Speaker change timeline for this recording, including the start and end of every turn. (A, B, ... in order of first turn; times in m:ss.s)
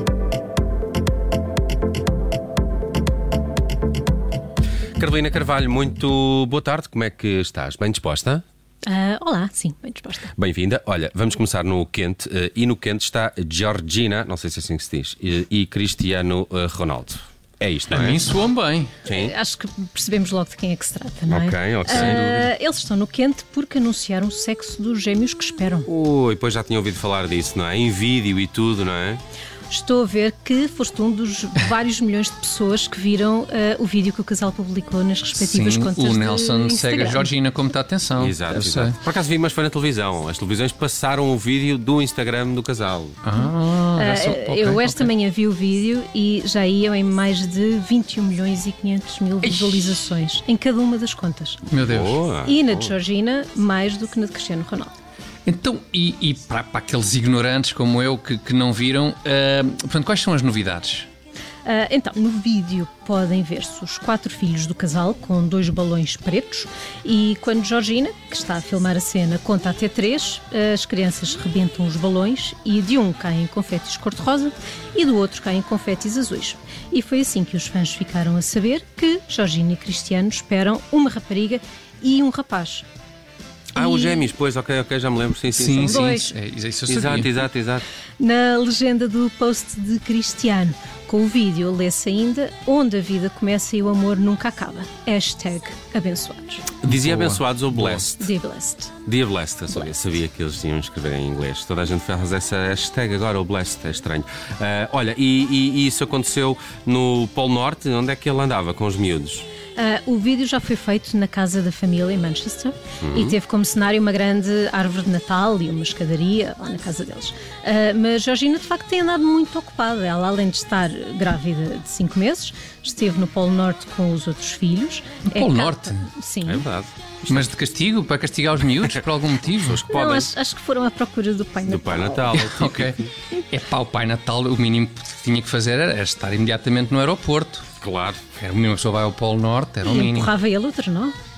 0:05.0-0:08.4 A
0:08.9-0:10.3 B
0:10.4-0:18.3 A
0:17.9-0:18.9 C
0:19.0-0:19.3 A
0:19.1-0:25.9 B
0:21.3-0:22.3 A
0:21.9-0:22.5 C
0:25.9-0:29.2 A
0:29.7-0:37.3 B
0:35.4-0:39.0 C
0:38.2-0:43.2 A
0:43.2-0:45.1 C
0:44.0-0:51.7 B
0:49.4-0:50.0 C
0:51.7-0:52.2 C
0:51.8-0:52.9 A
0:52.4-0:54.9 B
0:55.5-1:01.1 C
1:01.6-1:22.9 B
1:23.8-1:26.2 A
1:23.8-1:24.3 B
1:25.5-1:27.3 C
1:25.8-1:26.3 B
1:26.9-1:27.8 A
1:28.2-1:36.7 B
1:36.8-1:38.3 A
1:36.9-1:37.4 C
1:38.0-1:38.9 B
1:39.1-1:49.5 A
1:49.8-2:06.7 B
1:53.0-1:53.4 A
2:05.3-2:06.1 C
2:06.4-2:06.9 A
2:07.3-2:09.8 C
2:09.6-2:10.3 A
2:09.9-2:12.3 B
2:11.7-2:13.1 A
2:12.3-2:17.7 C
2:17.8-2:18.2 A
2:18.4-2:20.3 C
2:19.8-2:21.2 B